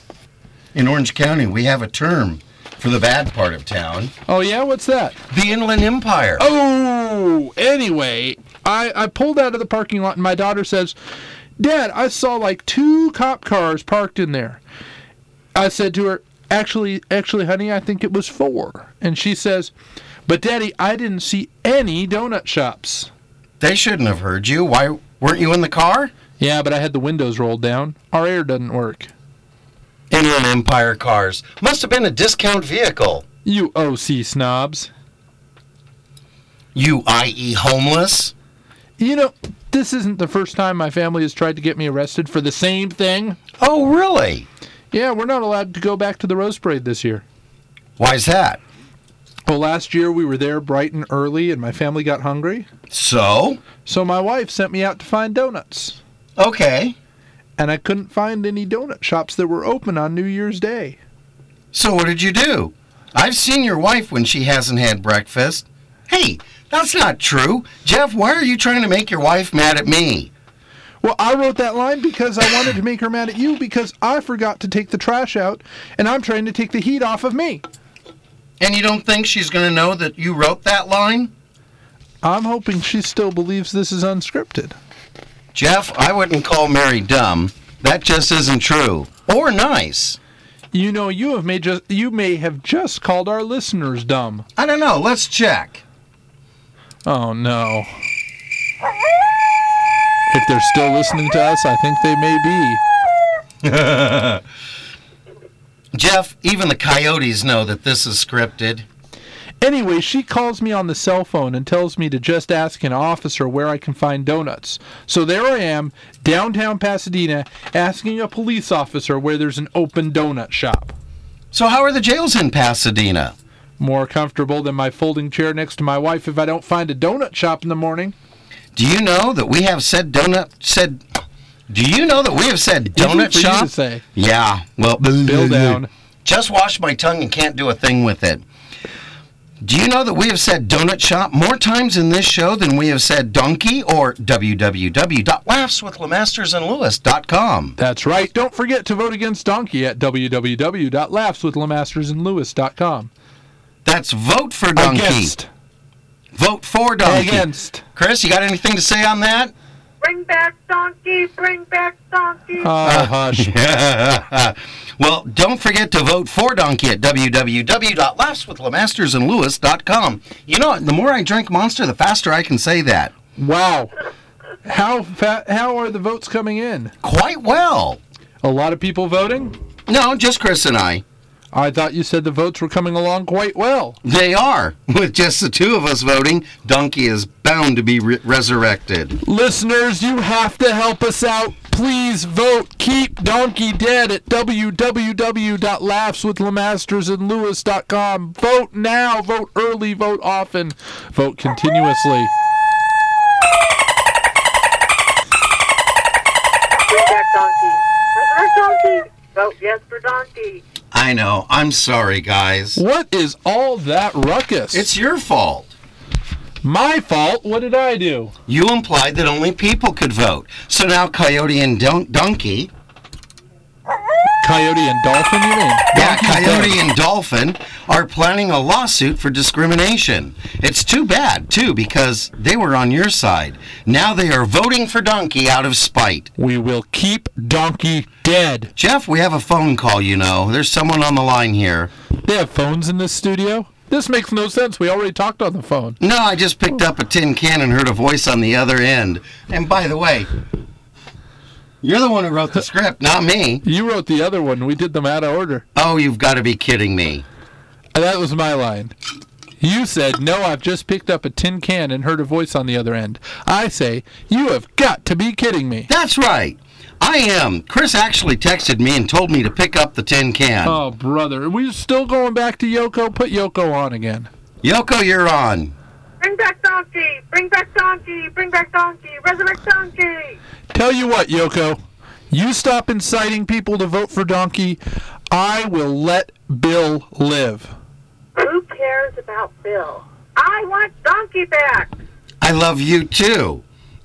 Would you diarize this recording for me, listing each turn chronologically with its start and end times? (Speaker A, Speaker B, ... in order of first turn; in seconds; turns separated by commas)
Speaker A: 0.7-4.1, Speaker B: 4.3-5.2, Speaker A: 5.3-6.4, Speaker B: 6.4-10.9, Speaker B: 11.6-14.6, Speaker B: 15.5-19.7, Speaker B: 20.3-23.1, Speaker A: 23.6-26.1, Speaker B: 26.4-29.1, Speaker A: 30.1-33.2, Speaker B: 33.4-34.9, Speaker A: 36.7-38.3, Speaker B: 39.0-43.4, Speaker A: 43.6-44.5, Speaker B: 44.9-47.2, Speaker A: 48.0-48.6, Speaker B: 49.5-52.7, Speaker A: 52.9-53.6, Speaker B: 53.8-56.0, Speaker A: 56.4-57.0, Speaker B: 57.6-61.0, Speaker A: 61.7-70.3, Speaker B: 71.0-77.6, Speaker A: 78.6-81.3, Speaker B: 82.2-84.7, Speaker A: 85.5-90.2, Speaker B: 90.7-94.5, Speaker A: 94.5-95.8, Speaker B: 97.0-97.9, Speaker B: 100.3-102.8, Speaker A: 103.6-104.4, Speaker A: 105.9-108.8, Speaker B: 109.6-120.9, Speaker A: 121.5-123.3, Speaker B: 123.8-128.1, Speaker A: 128.7-131.0, Speaker A: 131.7-138.4, Speaker B: 132.9-134.0, Speaker B: 135.2-135.9, Speaker A: 139.6-147.8, Speaker B: 147.8-153.1, Speaker A: 153.8-155.3, Speaker B: 154.8-155.5, Speaker A: 156.3-159.5, Speaker B: 157.0-157.8, Speaker C: 160.0-162.8, Speaker B: 162.6-163.5, Speaker A: 162.8-173.1, Speaker B: 173.3-173.9, Speaker B: 174.6-176.9, Speaker A: 177.0-178.0, Speaker B: 178.4-179.6, Speaker A: 179.9-181.0, Speaker B: 181.5-184.0, Speaker A: 184.0-189.2, Speaker B: 189.2-202.3, Speaker C: 206.9-210.6, Speaker A: 210.9-212.8, Speaker B: 212.8-214.9, Speaker A: 214.7-215.7, Speaker B: 216.6-218.3, Speaker A: 218.5-222.7, Speaker B: 224.4-226.8, Speaker A: 225.9-236.3, Speaker B: 236.4-238.7, Speaker A: 238.8-241.9, Speaker B: 242.2-246.0, Speaker A: 246.0-250.3, Speaker A: 251.8-253.6, Speaker B: 253.6-255.6, Speaker A: 255.7-257.2, Speaker B: 257.9-258.9, Speaker B: 259.6-265.9, Speaker A: 265.9-270.8, Speaker B: 270.6-274.3, Speaker A: 274.6-275.7, Speaker C: 276.2-280.4, Speaker B: 280.7-281.8, Speaker B: 282.3-284.8, Speaker B: 285.3-287.7, Speaker C: 288.4-291.9, Speaker A: 292.4-293.6